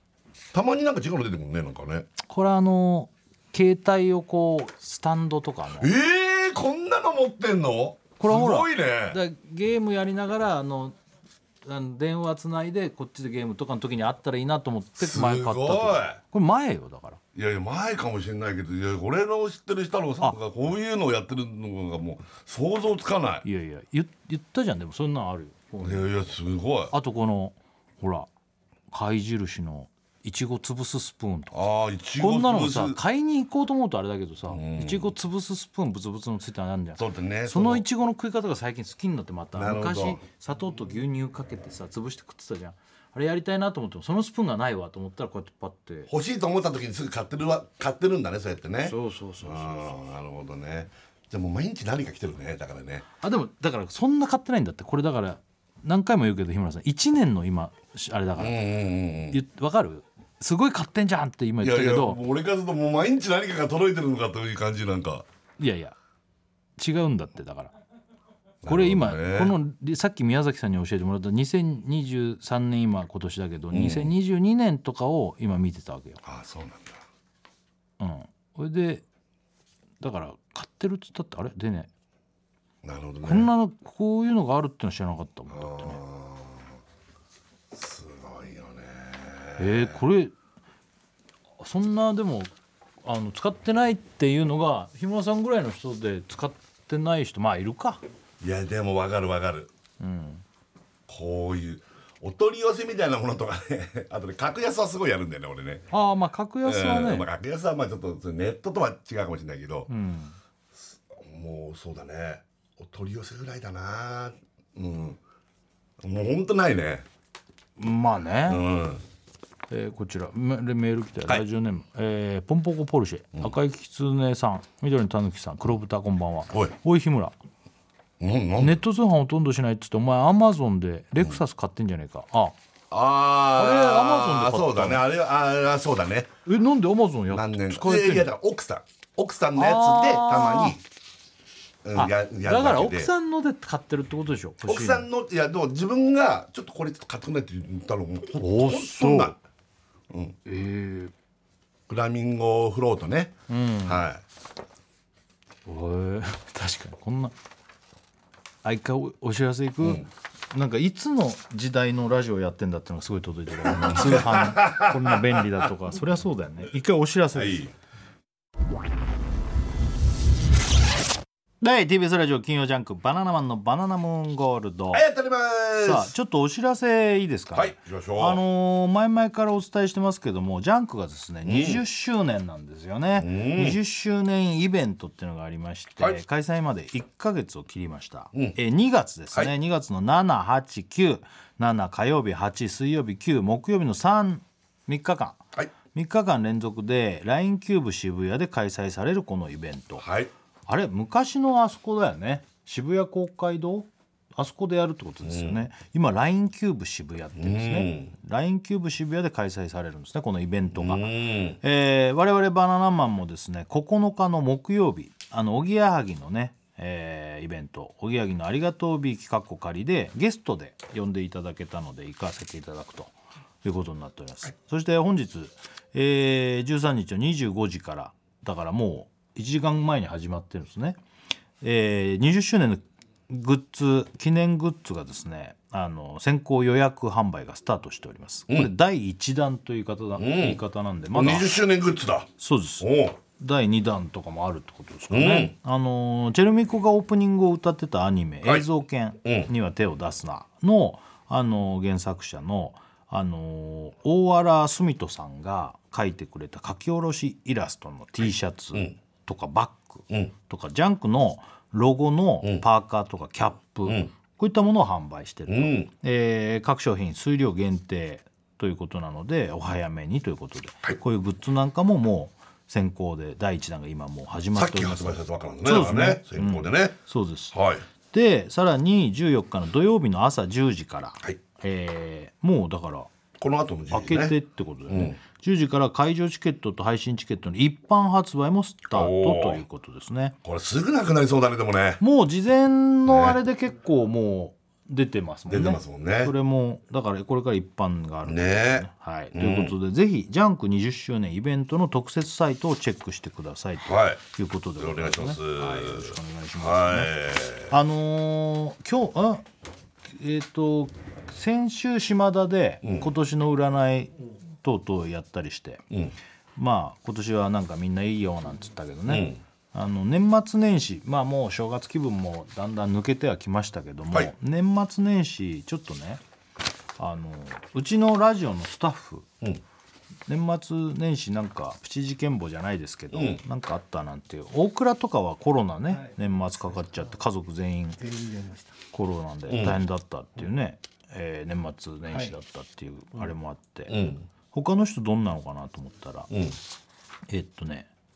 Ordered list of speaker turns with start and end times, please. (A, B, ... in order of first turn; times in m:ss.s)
0:00.5-0:02.1 A
0:02.2-0:05.9 B
0:05.8-0:09.2 A
0:08.2-0:11.0 B
0:11.6-0:17.2 B
0:15.0-0:16.2 A
0:17.3-0:23.4 A
0:23.4-0:26.4 B
0:25.8-0:26.9 A
0:26.9-0:28.3 B
0:28.9-0:31.6 B
0:31.5-0:33.0 A
0:32.2-0:46.1 B
0:34.5-0:35.1 A
0:37.0-0:37.8 A
0:39.5-0:40.2 A
0:46.1-0:53.0 A
0:48.8-0:50.0 B
0:53.2-0:58.7 B
0:58.4-0:59.4 A
0:59.3-1:02.2 B
1:01.6-1:05.2 A
1:05.6-1:06.0 B
1:06.8-1:07.7 B
1:08.6-1:09.6 A
1:08.6-1:16.2 B
1:13.7-1:14.1 A
1:16.2-1:17.0 A
1:18.0-1:19.0 B
1:20.0-1:21.9 B
1:22.8-1:23.5 A
1:23.2-1:26.0 B
1:25.5-1:26.8 A
1:27.7-1:30.0 A
1:29.6-1:30.3 B
1:31.6-1:38.0 B
1:38.4-1:39.7 A
1:40.0-1:40.4 B
1:41.1-1:45.9 A
1:45.9-1:47.3 B
1:46.6-1:49.9 A
1:49.9-1:50.4 B
1:50.7-1:55.2 A
1:56.0-1:57.0 A
1:57.8-1:58.6 B
1:58.5-1:59.0 A
1:59.7-2:07.4 B
2:06.5-2:06.7 A
2:08.2-2:08.8 A
2:08.6-2:12.6 B
2:12.9-2:16.3 A
2:13.5-2:15.0 B
2:16.4-2:18.3 B
2:17.3-2:20.8 A
2:19.5-2:20.8 B
2:21.8-2:23.1 A
2:21.9-2:25.1 B
2:24.6-2:29.4 A
2:28.3-2:29.3 B
2:30.1-2:30.4 A
2:30.4-2:31.1 B
2:31.9-2:34.2 A
2:33.5-2:34.0 B
2:35.6-2:37.3 B
2:38.6-2:47.7 B
2:43.6-2:45.7 A
2:47.3-2:47.7 A
2:51.6-2:55.0 B
2:54.9-2:56.1 A
2:55.8-3:20.0 B
2:57.5-2:58.4 A
3:01.4-3:01.8 A
3:03.2-3:03.8 A
3:20.0-3:20.3 A
3:20.7-3:51.0 B
3:25.2-3:25.6 A
3:27.4-3:28.1 A
3:30.7-3:31.6 A
3:51.6-4:01.6 B
4:00.2-4:00.6 A
4:01.1-4:03.2 A
4:02.4-4:43.1 B
4:05.1-4:05.5 A
4:09.2-4:09.5 A
4:23.8-4:24.1 A
4:25.5-4:25.9 A
4:34.5-4:37.0 A
4:37.5-4:37.8 A
4:43.4-4:44.4 A
4:43.9-4:50.3 B
4:44.9-4:45.2 A
4:48.9-4:49.6 A
4:50.4-4:52.0 A
4:52.0-5:07.1 B
4:53.0-4:53.4 A
4:55.5-4:56.3 A
4:58.2-4:59.7 A
5:03.8-5:04.2 A
5:04.8-5:07.7 A
5:07.7-5:09.4 B
5:10.1-5:15.8 B
5:12.8-5:13.1 A
5:15.9-5:16.2 A
5:16.6-5:26.2 B
5:19.0-5:19.4 A
5:27.0-5:29.3 B
5:30.3-5:38.0 B
5:33.1-5:33.4 A
5:35.9-5:37.2 C
5:38.0-5:38.8 C
5:38.9-5:46.3 B
5:39.5-5:39.8 A
5:42.1-5:42.3 C
5:43.9-5:44.3 A
5:46.3-5:46.6 A
5:47.3-5:47.9 B